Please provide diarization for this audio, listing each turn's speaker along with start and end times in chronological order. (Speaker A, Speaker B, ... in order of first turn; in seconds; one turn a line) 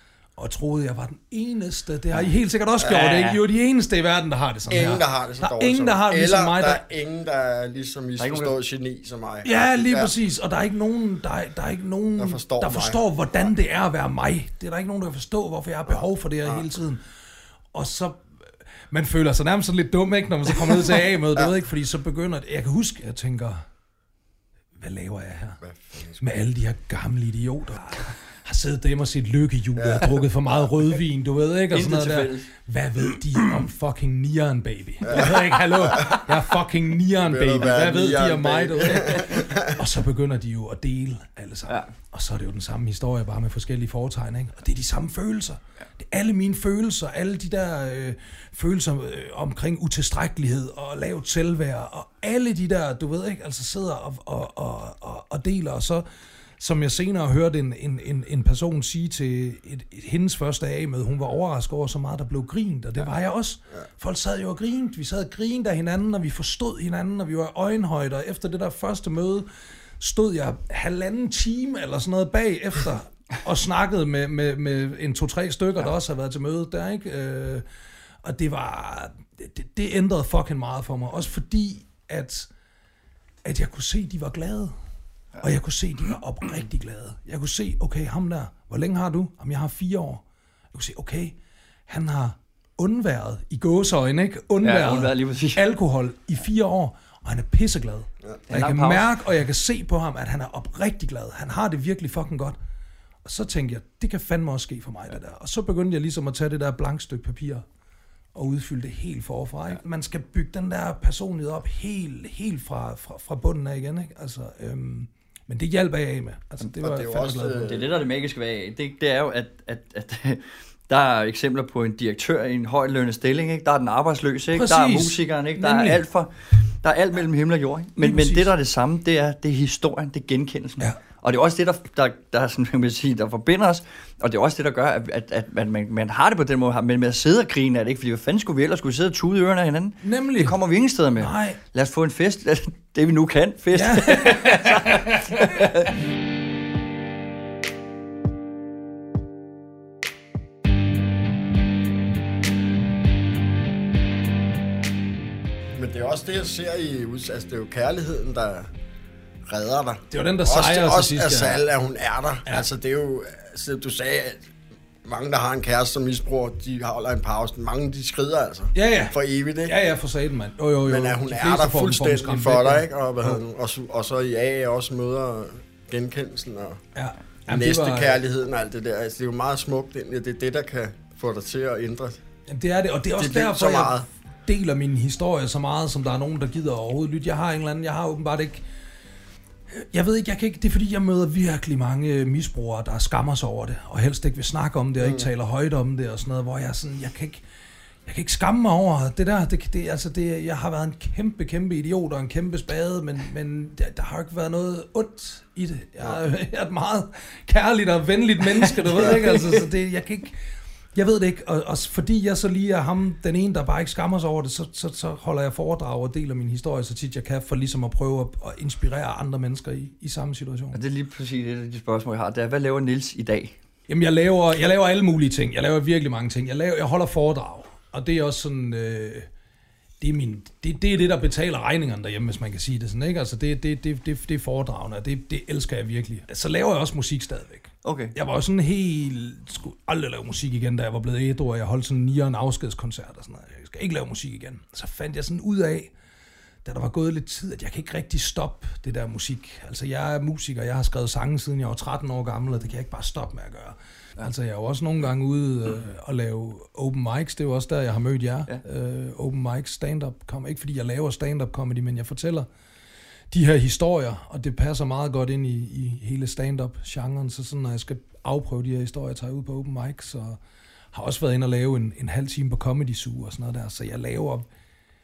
Speaker A: 0.3-6.8
Speaker B: 2.9-3.4
Speaker C: 4.7-10.1
Speaker B: 8.2-8.6
Speaker A: 9.4-17.0
Speaker C: 12.2-13.0
Speaker A: 17.7-18.2
Speaker A: 18.9-23.6
Speaker A: 24.8-25.6
Speaker C: 25.6-26.2
Speaker A: 26.2-56.0
Speaker C: 29.8-30.3
Speaker B: 31.7-32.5
Speaker C: 35.0-36.2
Speaker C: 37.2-39.8
Speaker B: 38.9-39.3
Speaker A: 56.6-69.5
Speaker A: 70.0-77.6
Speaker A: 78.2-82.5
Speaker A: 83.4-84.7
Speaker A: 85.4-91.3
Speaker A: 91.9-102.6
Speaker B: 94.6-95.6
Speaker B: 98.5-99.1
Speaker A: 103.2-107.6
Speaker A: 108.3-117.8
Speaker C: 116.8-117.9
Speaker B: 117.6-145.9
Speaker A: 124.5-126.0
Speaker A: 128.0-128.5
Speaker A: 140.0-140.6
Speaker A: 141.2-141.6
Speaker A: 143.7-145.5
Speaker C: 155.7-158.7
Speaker C: 159.4-164.5
Speaker A: 160.1-161.7
Speaker C: 165.0-169.7
Speaker A: 168.7-173.4
Speaker C: 170.9-176.8
Speaker A: 176.9-178.2
Speaker C: 177.5-182.2
Speaker A: 182.5-188.6
Speaker C: 183.2-184.0
Speaker A: 189.7-197.4
Speaker C: 195.0-195.3
Speaker A: 198.1-210.4
Speaker A: 210.9-220.8
Speaker B: 220.7-223.5
Speaker A: 223.9-229.3
Speaker A: 230.0-245.9
Speaker B: 237.8-238.1
Speaker A: 246.6-262.5
Speaker A: 263.3-270.4
Speaker A: 270.9-274.4